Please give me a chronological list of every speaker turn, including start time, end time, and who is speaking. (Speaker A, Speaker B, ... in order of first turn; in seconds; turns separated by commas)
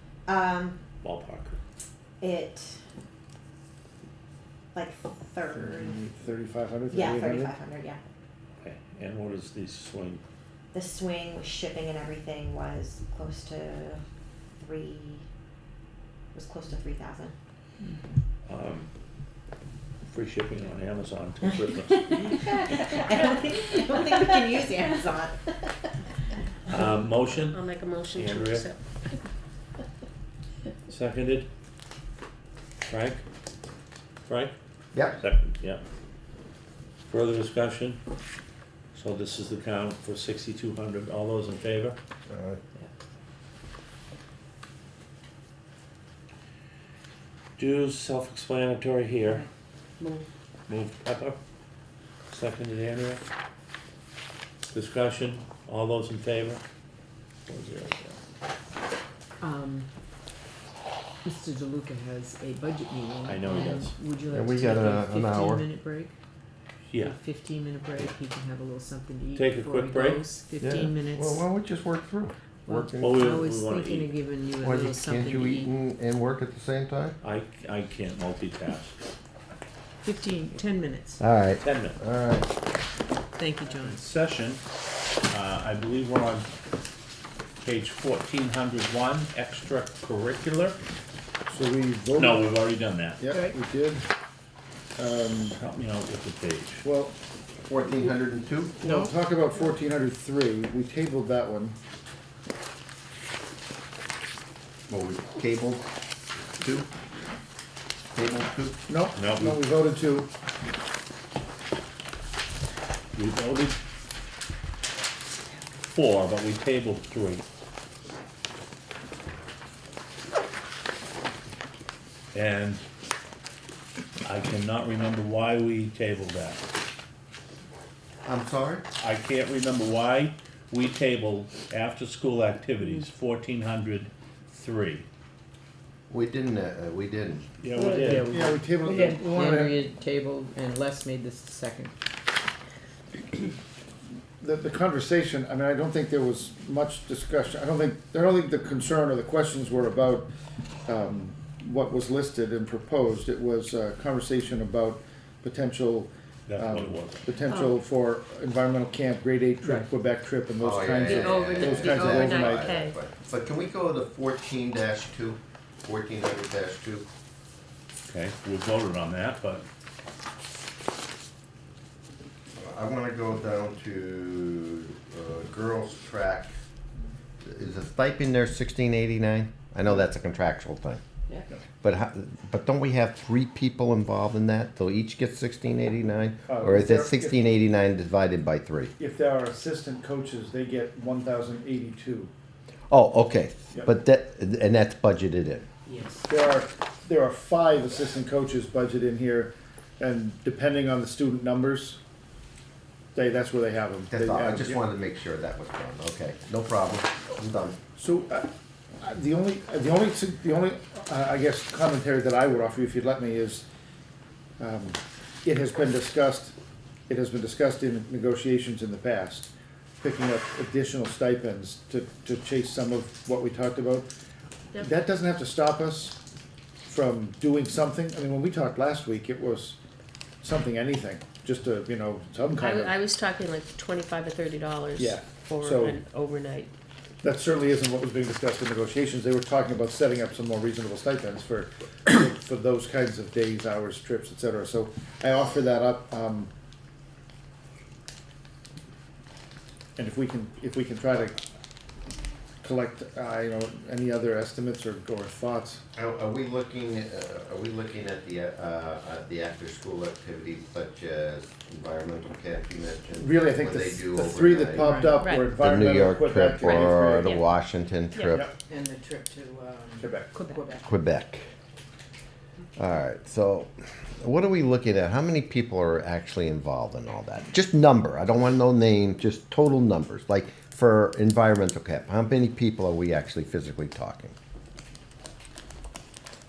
Speaker A: 0.2-0.8, Speaker B: 1.0-1.6, Speaker A: 2.2-2.8, Speaker A: 4.7-6.0, Speaker C: 5.8-7.5, Speaker A: 6.9-8.0, Speaker B: 8.6-10.2, Speaker A: 10.7-14.0, Speaker A: 14.6-15.2, Speaker A: 16.3-17.3, Speaker B: 18.5-18.9, Speaker B: 20.1-22.7, Speaker A: 22.1-25.9, Speaker B: 26.7-27.6, Speaker D: 27.5-28.8, Speaker B: 28.1-28.7, Speaker B: 30.9-31.5, Speaker B: 32.9-33.2, Speaker B: 34.3-34.5, Speaker E: 34.9-35.2, Speaker B: 35.2-35.8, Speaker B: 37.1-38.0, Speaker B: 38.9-42.0, Speaker E: 42.3-42.6, Speaker B: 47.6-49.5, Speaker B: 50.7-51.4, Speaker B: 52.3-53.2, Speaker B: 54.7-56.6, Speaker B: 57.5-58.2, Speaker F: 59.4-59.9, Speaker F: 61.2-66.1, Speaker B: 63.2-63.9, Speaker E: 64.3-65.6, Speaker F: 66.9-71.5, Speaker B: 69.3-70.3, Speaker E: 70.6-73.4, Speaker F: 72.7-75.7, Speaker B: 73.0-74.1, Speaker E: 74.6-77.2, Speaker B: 77.2-79.0, Speaker F: 80.0-81.2, Speaker E: 81.2-82.5, Speaker B: 81.6-82.0, Speaker F: 83.3-84.0, Speaker B: 83.7-84.6, Speaker B: 85.3-86.5, Speaker B: 87.6-90.8, Speaker C: 91.5-92.6, Speaker B: 92.1-93.2, Speaker C: 93.2-94.0, Speaker F: 93.3-93.5, Speaker C: 95.0-95.6, Speaker B: 95.5-96.8, Speaker C: 96.8-97.2, Speaker E: 97.6-98.8, Speaker C: 98.8-101.8, Speaker F: 98.8-99.1, Speaker E: 104.9-105.8, Speaker E: 106.6-106.9, Speaker E: 108.1-108.8, Speaker C: 108.9-110.3, Speaker B: 109.2-109.6, Speaker B: 113.2-113.8, Speaker B: 115.9-117.4, Speaker B: 122.3-122.8, Speaker B: 124.2-126.6, Speaker E: 128.2-128.8, Speaker B: 129.0-135.1, Speaker E: 136.1-137.5, Speaker B: 137.6-138.3, Speaker F: 137.9-141.9, Speaker C: 138.2-139.8, Speaker C: 144.4-150.3, Speaker C: 150.8-162.7, Speaker B: 156.5-157.2, Speaker D: 157.5-157.7, Speaker E: 160.6-167.1, Speaker D: 161.0-163.0, Speaker B: 168.1-169.6, Speaker E: 172.6-176.5, Speaker E: 177.4-181.0, Speaker E: 181.8-188.9, Speaker C: 186.5-187.4, Speaker C: 189.0-192.3, Speaker E: 192.9-195.7, Speaker F: 195.9-196.3, Speaker C: 196.3-202.0, Speaker C: 203.1-204.8, Speaker E: 204.1-207.8, Speaker C: 207.9-213.6, Speaker C: 214.6-216.5, Speaker C: 217.1-219.5, Speaker C: 220.0-224.1, Speaker C: 224.8-226.2, Speaker C: 226.8-229.8, Speaker C: 230.4-233.0, Speaker D: 232.6-236.7, Speaker C: 235.0-236.0, Speaker C: 237.2-246.5, Speaker C: 249.9-251.4, Speaker C: 252.6-255.8, Speaker E: 255.9-268.5, Speaker C: 263.1-267.3, Speaker F: 264.8-265.3, Speaker D: 265.2-265.5, Speaker D: 266.6-267.4, Speaker D: 268.1-268.4, Speaker F: 268.6-270.9, Speaker C: 270.0-270.3, Speaker D: 270.3-270.6, Speaker E: 270.8-271.4, Speaker E: 272.8-284.3